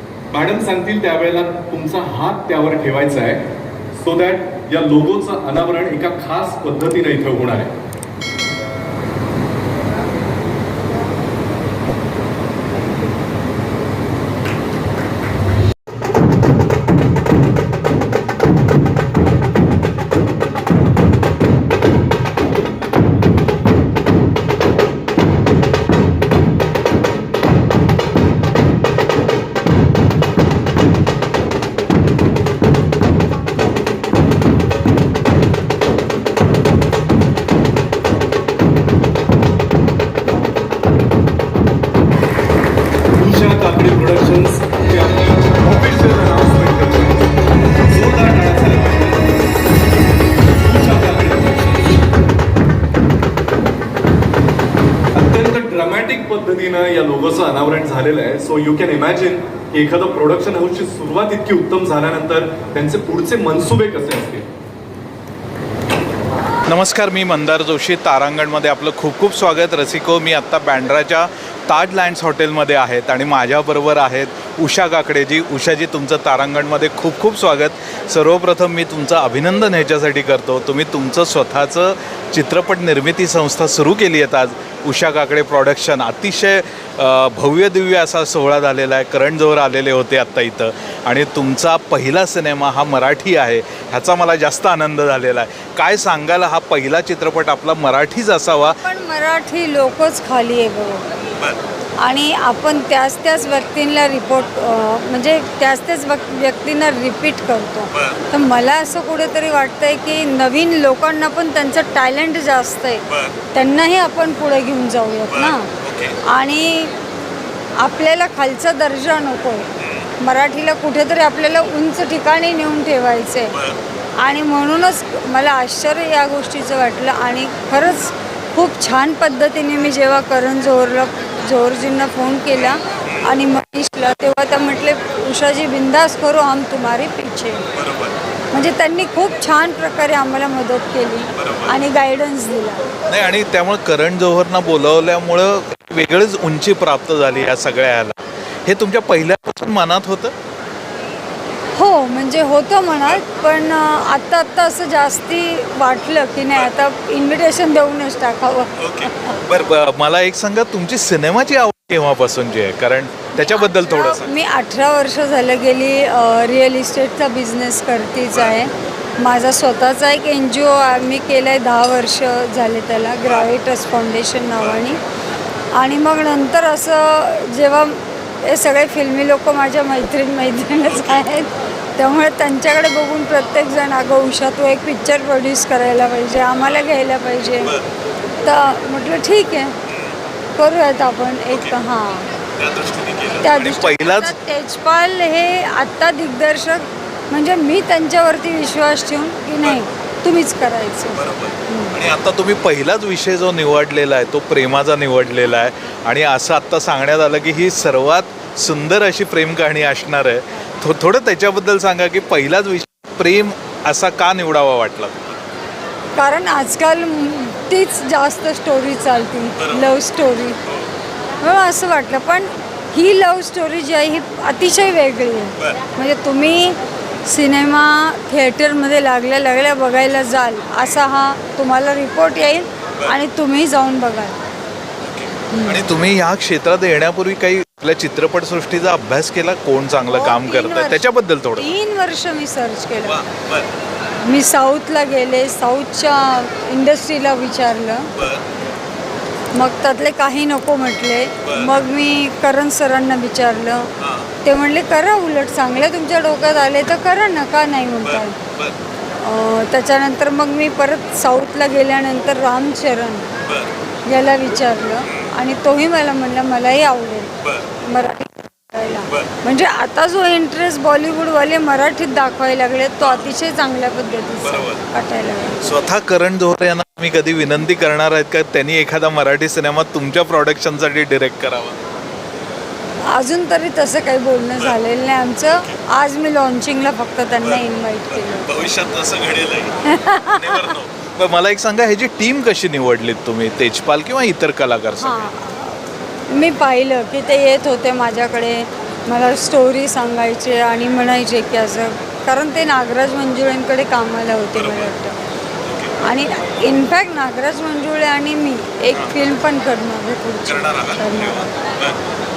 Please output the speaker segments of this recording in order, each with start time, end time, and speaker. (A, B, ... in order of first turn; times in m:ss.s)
0:00.3-0:07.7 A
0:43.1-0:47.3 A
0:47.9-0:49.3 A
0:50.6-0:52.0 A
0:55.1-1:04.5 A
1:06.7-1:38.8 B
1:38.7-1:41.0 C
1:42.0-1:55.7 C
1:47.9-1:48.2 B
1:53.1-1:53.3 B
1:55.3-1:56.2 B
1:56.2-1:56.9 C
1:57.8-2:03.6 C
1:59.8-2:00.1 B
2:04.2-2:17.7 C
2:13.0-2:13.3 B
2:17.8-2:18.2 B
2:18.5-2:22.9 C
2:21.3-2:21.8 B
2:23.1-2:30.3 B
2:31.8-2:39.4 C
2:38.8-2:44.4 B
2:43.4-2:55.0 C
2:54.6-2:54.8 B
2:55.8-3:07.8 C
3:00.9-3:01.2 B
3:08.4-3:09.8 C
3:10.6-3:12.3 C
3:11.5-3:11.8 B
3:12.6-3:14.3 B
3:13.4-3:22.0 C
3:21.2-3:35.2 B
3:36.2-3:40.6 C
3:39.6-3:39.9 B
3:41.4-3:54.4 C
3:55.0-4:01.7 B
3:55.5-3:55.8 C
4:00.1-4:03.2 C
4:03.0-4:03.7 B
4:04.2-4:08.1 C
4:08.2-4:08.4 B
4:09.5-4:13.9 C
4:11.4-4:11.7 B
4:14.0-4:14.3 B
4:14.4-4:18.4 C
4:18.0-4:18.8 B
4:19.2-4:23.3 C
4:23.5-4:23.7 B
4:24.0-4:35.6 C
4:27.4-4:27.7 B
4:33.0-4:33.3 B
4:34.4-4:34.8 B
4:35.6-4:41.8 B
4:43.1-4:48.5 C
4:48.1-4:55.3 B
4:49.8-4:50.8 C
4:55.0-4:55.7 C
4:56.3-5:05.2 C
5:04.6-5:04.9 B
5:05.6-5:06.0 B
5:06.0-5:11.5 C
5:10.5-5:12.0 B